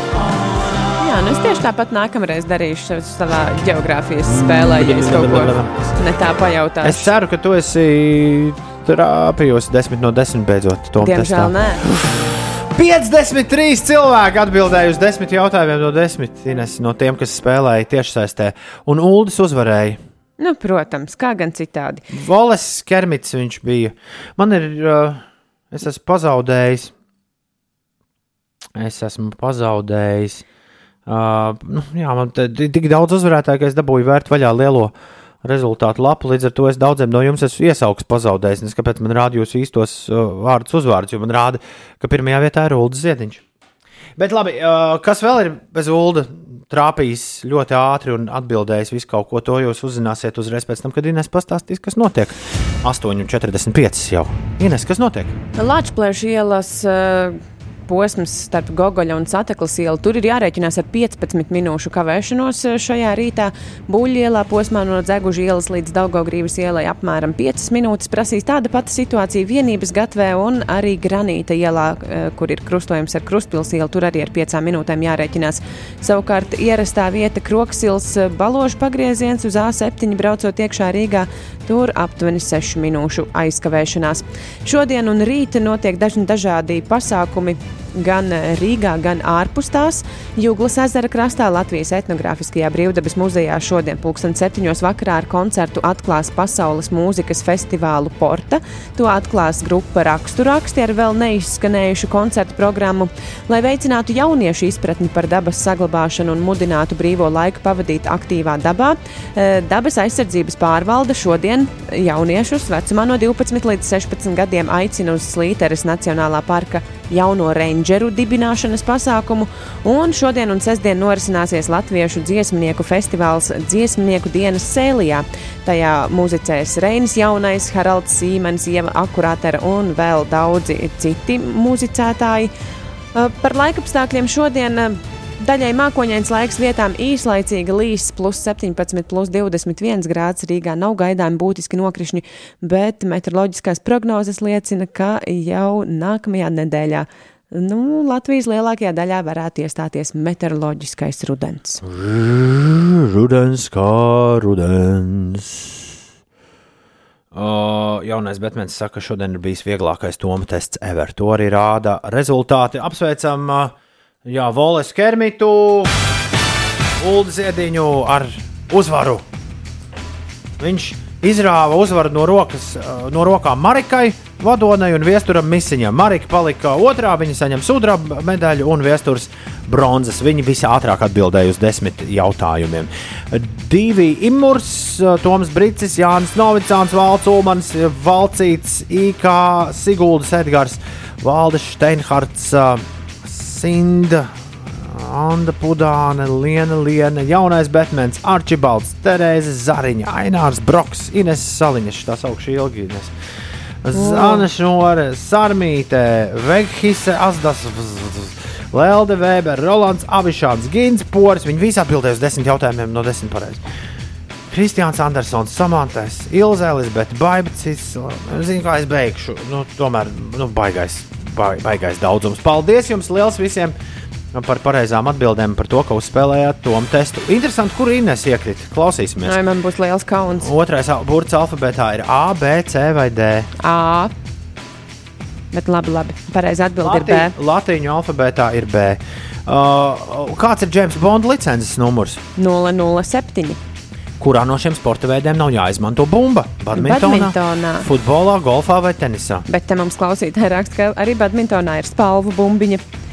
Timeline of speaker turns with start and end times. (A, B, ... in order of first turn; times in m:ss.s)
0:01.0-0:07.1 A
0:04.3-0:05.7 B
0:06.8-0:20.0 B
0:11.0-0:11.8 A
0:20.4-0:22.0 A
0:22.1-0:26.9 B
0:28.7-0:30.4 B
0:31.1-0:43.4 B
0:44.2-0:55.4 B
0:55.6-2:12.5 A
2:13.1-2:31.8 A
2:31.8-2:36.0 B
2:37.3-2:43.7 B
2:44.2-2:46.0 B
2:47.0-2:49.3 B
2:50.6-3:23.1 B
3:23.8-3:33.7 B
3:23.9-3:24.5 A
3:34.5-3:43.8 B
3:44.3-3:49.4 B
3:49.2-3:50.5 A
3:50.4-3:53.5 B
3:53.6-3:54.2 A
3:55.5-3:57.4 A
3:56.8-4:02.2 B
4:02.4-4:03.6 A
4:04.2-4:09.4 B
4:06.7-4:07.9 A
4:09.5-4:12.9 A